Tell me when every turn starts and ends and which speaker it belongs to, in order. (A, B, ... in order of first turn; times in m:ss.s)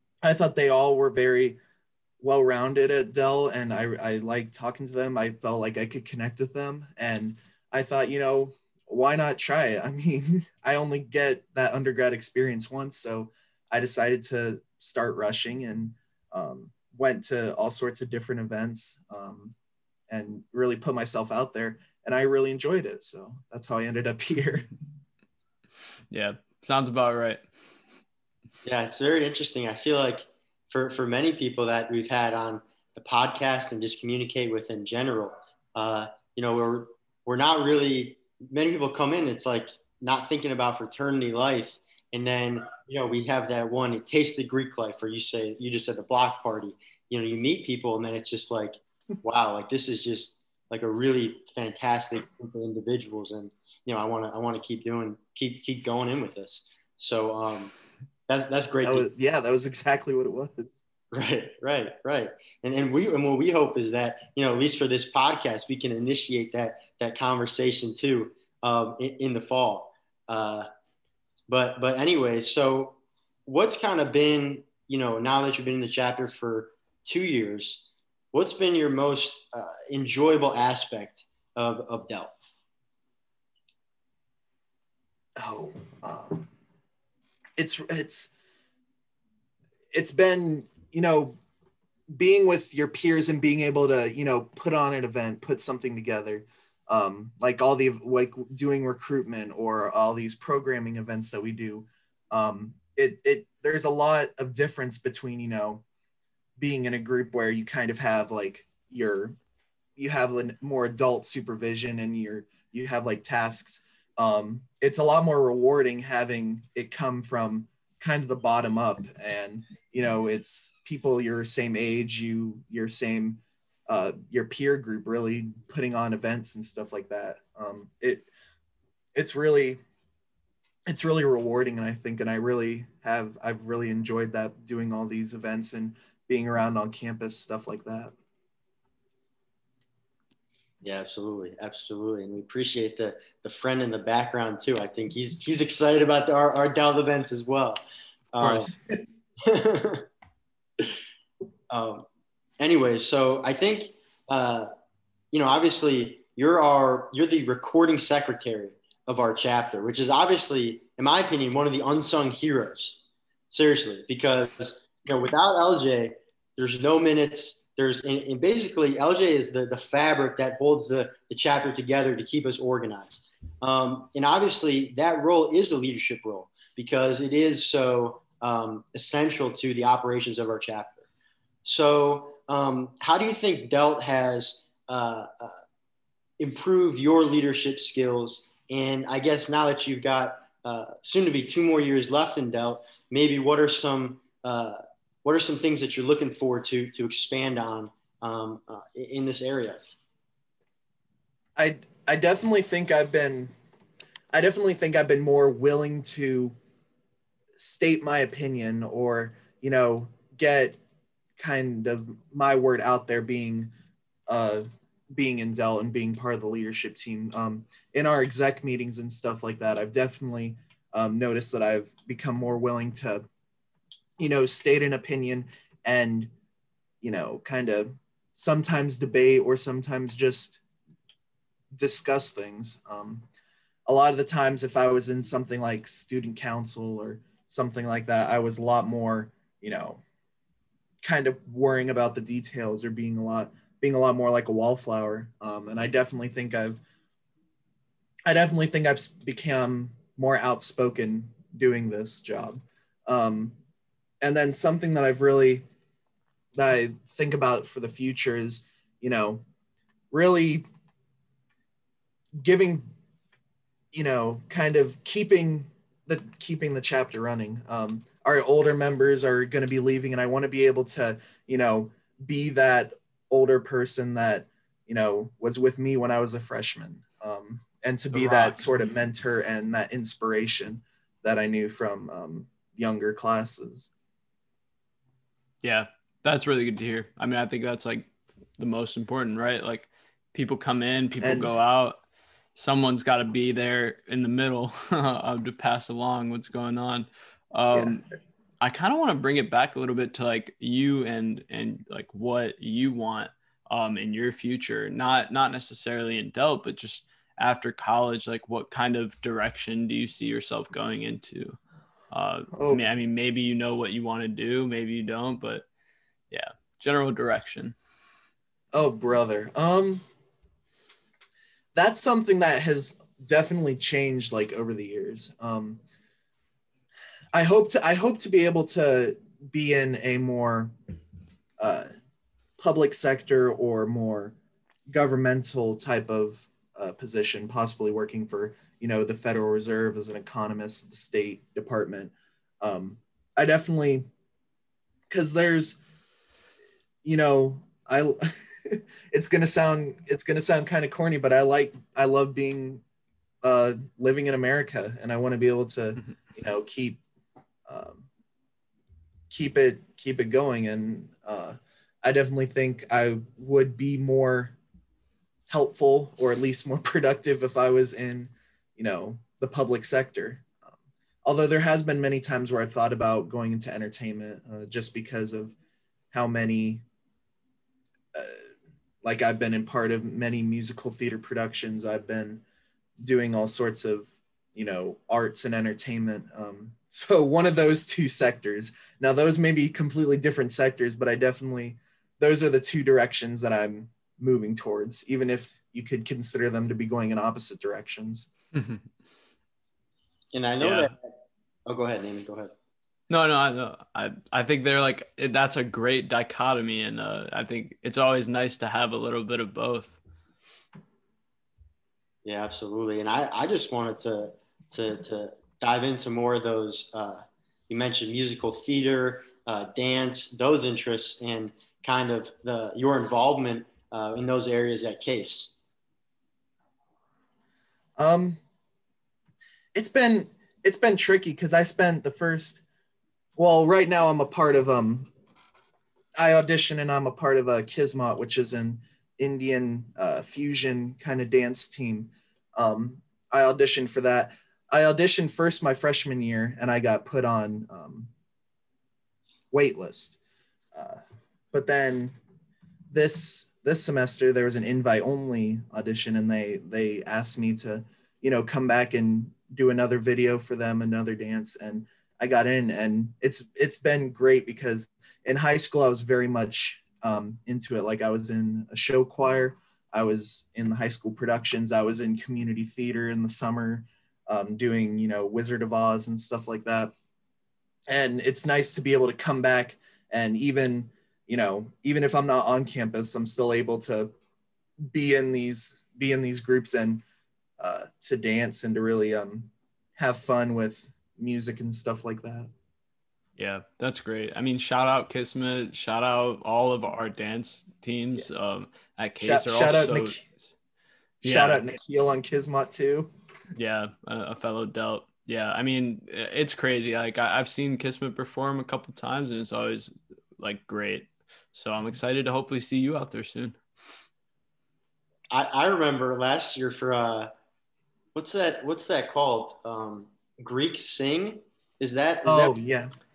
0:00.2-0:01.6 A
0:02.2-0:19.6 A
0:20.1-0:24.7 A
0:26.1-0:27.4 B
0:28.6-0:57.7 C
0:58.3-0:59.1 C
0:58.8-1:00.8 A
1:01.1-1:10.7 C
1:11.5-1:22.4 C
1:25.4-1:26.5 A
1:27.6-1:28.3 A
1:29.9-1:31.4 A
1:32.1-1:45.8 A
1:46.6-1:49.4 A
1:50.0-2:08.3 A
2:09.2-2:09.8 A
2:10.9-2:18.1 A
2:20.8-2:28.7 C
2:28.4-2:28.7 B
2:29.4-2:30.1 C
2:31.7-2:32.1 C
2:32.6-2:34.7 C
2:35.3-3:01.0 C
3:01.6-3:05.6 C
3:06.4-3:19.9 C
3:21.6-3:23.5 A
3:24.3-3:26.6 A
3:27.6-3:30.8 A
3:31.4-3:33.7 A
3:34.3-3:43.3 A
3:44.2-3:46.3 A
3:47.0-3:50.6 A
3:51.8-3:53.3 A
3:53.9-4:00.0 A
4:01.0-4:06.8 A
4:08.3-4:13.6 A
4:14.2-4:15.6 A
4:16.6-4:19.4 A
4:20.1-4:20.6 A
4:22.4-4:22.9 A
4:23.9-4:43.9 A
4:38.1-4:38.7 B
4:45.6-4:52.0 B
4:51.2-4:51.5 A
4:52.6-4:58.0 B
4:58.6-5:11.6 B
5:12.1-5:15.7 B
5:12.5-5:12.8 A
5:16.3-5:17.8 B
5:18.7-5:20.0 A
5:21.8-5:25.8 A
5:27.3-5:30.7 A
5:31.6-5:31.9 A
5:32.6-5:34.4 A
5:34.9-5:44.1 A
5:45.1-5:45.8 A
5:47.0-5:52.8 A
5:53.4-5:57.0 A
5:57.7-5:58.1 A
5:59.3-6:04.6 A
6:05.5-6:15.6 A
6:16.1-6:16.8 A
6:18.1-6:18.4 A
6:19.0-6:22.4 A
6:23.0-6:38.3 A
6:38.5-6:38.9 B
6:40.3-6:42.5 C
6:40.6-6:40.9 B
6:43.1-6:50.0 B
6:52.2-7:05.5 C
7:08.0-7:08.4 A
7:09.7-7:12.6 A
7:13.4-7:15.1 A
7:16.2-7:28.1 A
7:29.5-7:30.2 A
7:30.7-7:31.0 A
7:31.5-7:32.2 A
7:32.9-7:56.9 A
7:57.9-8:04.1 A
8:04.9-8:07.0 A
8:07.6-8:12.5 A
8:13.4-8:20.3 B
8:19.2-8:20.2 A
8:21.2-8:23.1 A
8:21.2-8:21.6 B
8:23.6-8:33.6 B
8:35.3-8:37.3 C
8:38.2-8:42.6 C
8:42.2-8:42.9 A